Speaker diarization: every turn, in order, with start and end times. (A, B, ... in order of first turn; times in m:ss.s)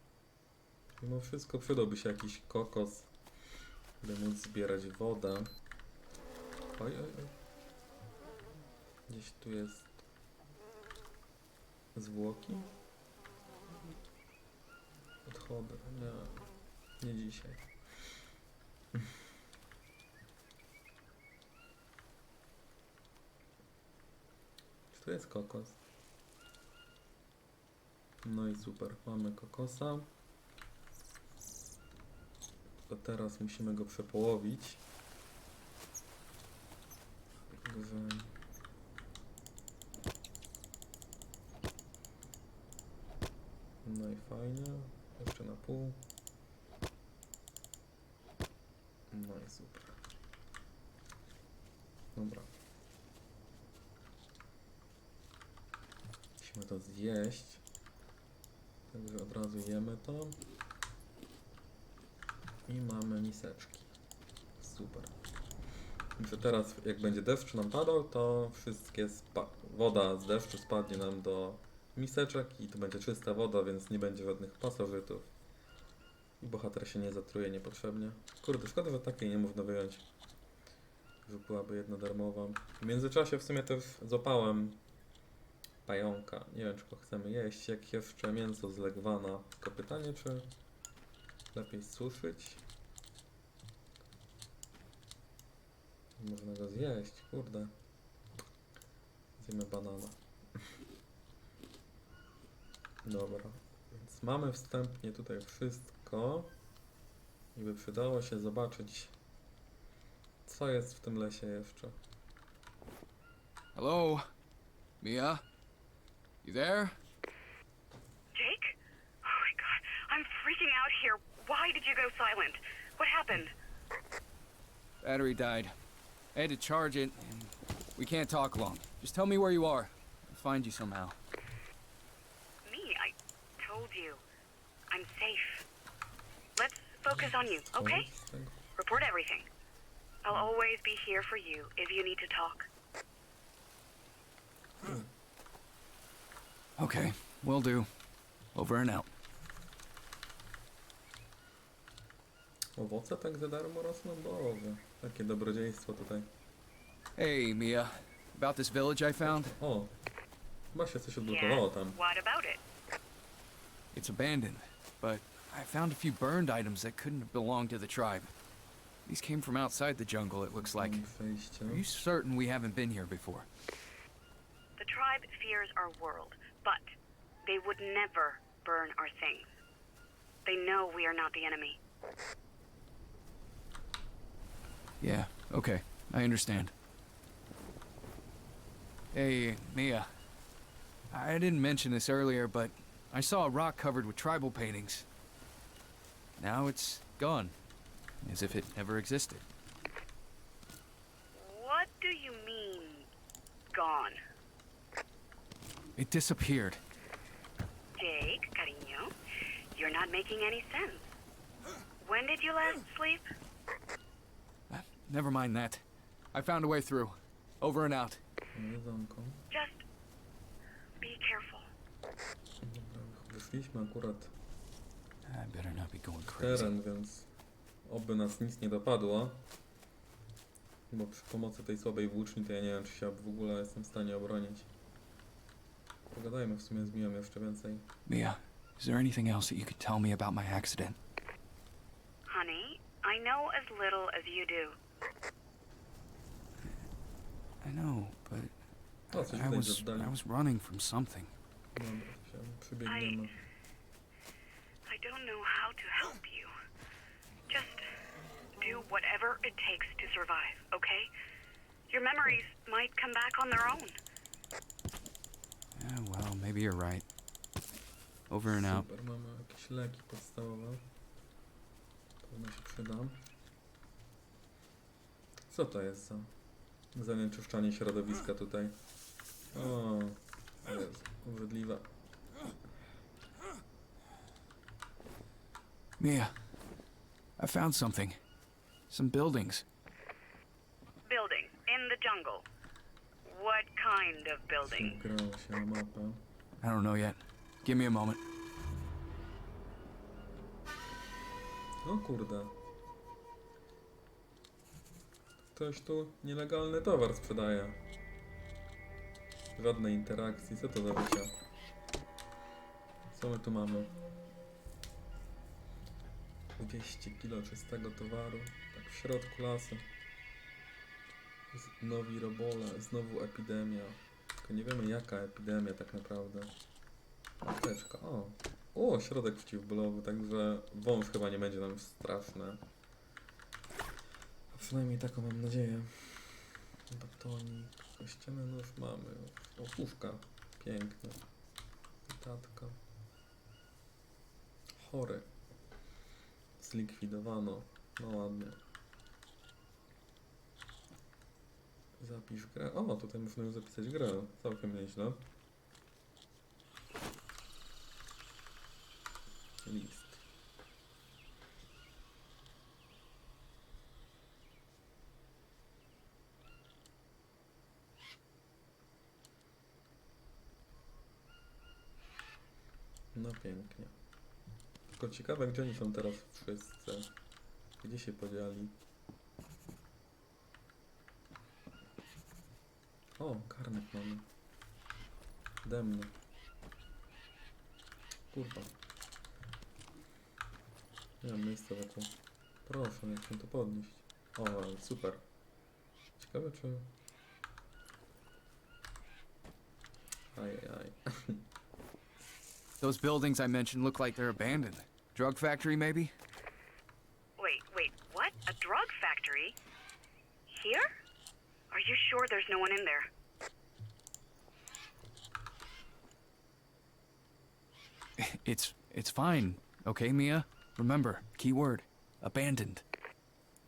0:01.0-0:03.1 A
0:04.0-0:05.5 A
0:06.8-0:07.4 A
0:09.1-0:10.0 A
0:11.9-0:12.7 A
0:15.2-0:17.6 A
0:24.9-0:25.8 A
0:28.2-0:30.1 A
0:32.9-0:34.8 A
0:37.5-0:38.3 A
0:43.8-0:46.0 A
0:49.1-0:50.0 A
0:52.1-0:52.5 A
0:56.4-0:57.6 A
0:58.9-1:00.4 A
1:02.7-1:03.9 A
1:04.6-1:05.1 A
1:06.2-1:15.3 A
1:16.4-1:20.1 A
1:21.2-1:24.8 A
1:25.8-1:30.5 A
1:31.5-1:32.6 A
1:36.2-1:37.7 A
1:39.4-1:40.2 A
1:43.0-1:46.5 A
1:47.5-1:49.1 A
1:50.4-1:52.0 A
1:53.7-1:54.2 B
1:55.0-1:55.4 B
1:56.4-1:57.0 B
1:58.3-2:03.5 C
2:05.0-2:05.7 B
2:06.3-2:11.2 B
2:12.6-2:14.2 C
2:14.9-2:15.6 C
2:16.6-2:18.1 C
2:17.5-2:18.6 A
2:18.8-2:19.4 C
2:20.2-2:22.7 C
2:24.8-2:25.1 A
2:26.8-2:27.9 B
2:28.5-2:29.1 B
2:32.8-2:36.3 A
2:37.2-2:39.5 B
2:39.2-2:39.9 A
2:40.7-2:42.0 A
2:41.2-2:42.6 C
2:43.9-2:48.3 B
2:49.0-2:51.0 B
2:50.6-2:51.8 A
2:51.7-2:53.4 B
2:54.8-2:56.8 C
2:57.4-2:59.6 C
3:00.4-3:01.8 C
3:05.0-3:06.7 B
3:09.1-3:10.1 B
3:11.1-3:15.0 B
3:16.4-3:17.5 B
3:18.2-3:19.4 B
3:21.3-3:23.1 C
3:23.7-3:24.2 C
3:26.0-3:26.8 B
3:27.9-3:29.1 C
3:29.7-3:31.2 C
3:32.0-3:33.2 C
3:34.7-3:38.2 B
3:38.5-3:39.4 A
3:39.5-3:39.8 C
3:41.0-3:41.6 C
3:42.6-3:44.3 A
3:45.2-3:46.7 B
3:46.3-3:47.3 A
3:47.8-3:49.4 A
3:50.9-3:54.7 A
3:56.1-3:57.9 A
3:58.0-4:01.0 B
4:02.3-4:04.8 C
4:07.6-4:08.5 B
4:09.1-4:11.3 B
4:09.1-4:10.2 A
4:11.7-4:13.3 A
4:12.8-4:13.3 C
4:14.9-4:16.5 C
4:17.5-4:17.8 C
4:18.6-4:21.1 C
4:21.9-4:24.0 C
4:25.8-4:27.0 B
4:28.3-4:28.9 B
4:28.5-4:30.8 A
4:32.2-4:33.2 A
4:35.4-4:36.3 A
4:36.9-4:38.8 A
4:39.5-4:41.9 A
4:46.0-4:46.3 B
4:47.4-4:48.2 B
4:48.9-4:49.6 B
4:51.0-4:52.4 C
4:53.2-4:55.0 C
4:54.6-4:56.2 A
4:56.6-4:58.2 B
5:01.8-5:02.5 A
5:05.5-5:07.8 A
5:09.6-5:11.3 A
5:13.1-5:13.9 A
5:16.6-5:19.8 A
5:21.5-5:26.5 A
5:27.4-5:32.6 A
5:34.5-5:41.2 A
5:42.0-5:42.8 A
5:44.7-5:45.3 A
5:46.6-5:48.6 A
5:52.0-5:55.2 A
5:59.6-6:00.2 A
6:13.1-6:14.0 A
6:14.9-6:17.1 A
6:17.8-6:18.8 A
6:23.2-6:24.3 A
6:25.6-6:26.2 A
6:28.3-6:28.8 A
6:31.2-6:35.2 A
6:36.2-6:36.9 A
6:40.3-6:41.4 A
6:42.8-6:46.1 B
6:47.4-6:49.6 C
6:50.5-6:50.9 C
6:51.7-6:53.1 C
6:58.2-7:02.8 B